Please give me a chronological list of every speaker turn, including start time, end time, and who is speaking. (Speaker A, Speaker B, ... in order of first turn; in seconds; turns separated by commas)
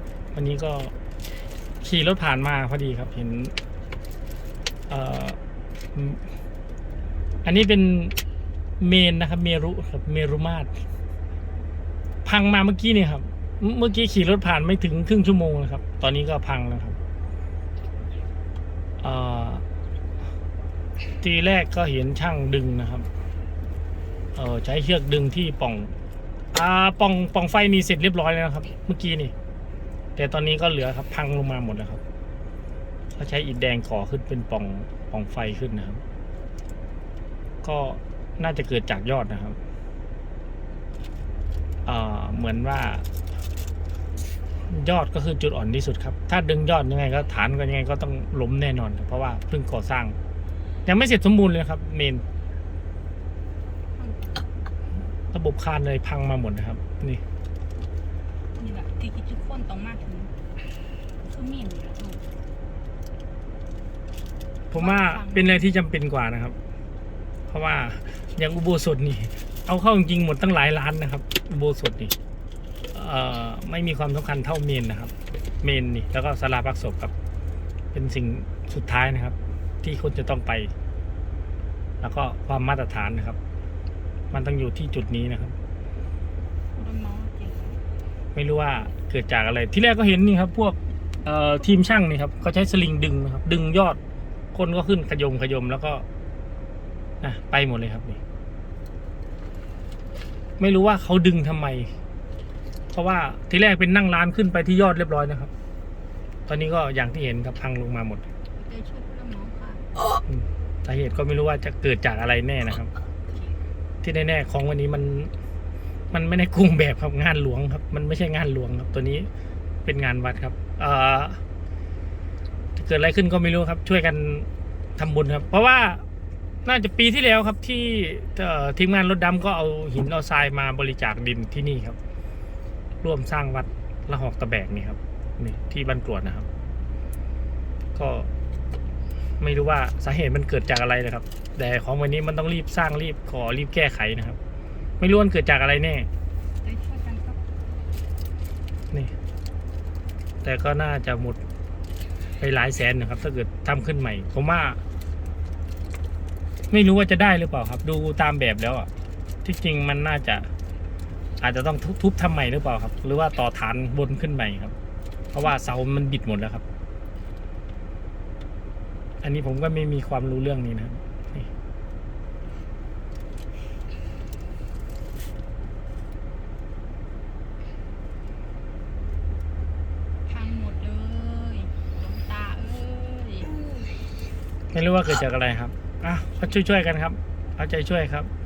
Speaker A: 0.3-0.9, Speaker A: 1.8-3.5, Speaker A: 4.9-5.4, Speaker A: 5.9-6.3, Speaker A: 7.4-8.2, Speaker A: 8.8-10.7, Speaker A: 12.2-17.0, Speaker A: 19.0-19.6, Speaker A: 21.2-23.1, Speaker A: 24.3-25.9, Speaker A: 26.5-29.3, Speaker A: 30.1-32.0, Speaker A: 33.1-36.0, Speaker A: 37.6-39.6, Speaker A: 41.8-43.0, Speaker A: 44.6-50.2, Speaker A: 50.9-52.2, Speaker B: 53.9-54.5, Speaker A: 55.3-57.2, Speaker B: 58.5-60.3, Speaker B: 61.2-62.2, Speaker A: 64.7-66.5, Speaker B: 64.8-65.7, Speaker A: 67.5-72.1, Speaker A: 72.9-77.1, Speaker A: 77.9-80.7, Speaker A: 82.0-83.4, Speaker A: 84.3-85.5, Speaker B: 86.7-87.8, Speaker A: 88.3-94.0, Speaker A: 94.5-96.0, Speaker A: 97.2-98.2, Speaker A: 100.6-101.9, Speaker A: 102.9-105.5, Speaker A: 106.5-108.2, Speaker B: 108.5-109.9, Speaker A: 110.3-112.9, Speaker B: 113.3-113.5, Speaker A: 114.0-115.3, Speaker A: 116.1-119.3, Speaker A: 119.8-121.4, Speaker A: 122.8-126.0, Speaker A: 126.6-132.0, Speaker A: 133.0-136.5, Speaker A: 137.9-138.3, Speaker A: 139.4-144.4, Speaker A: 145.0-146.1, Speaker B: 146.6-147.4, Speaker A: 150.4-151.4, Speaker A: 152.4-154.8, Speaker A: 156.7-158.9, Speaker A: 159.4-160.5, Speaker A: 161.4-164.7, Speaker A: 165.3-166.6, Speaker A: 169.2-171.5, Speaker B: 180.2-183.8, Speaker A: 184.7-188.3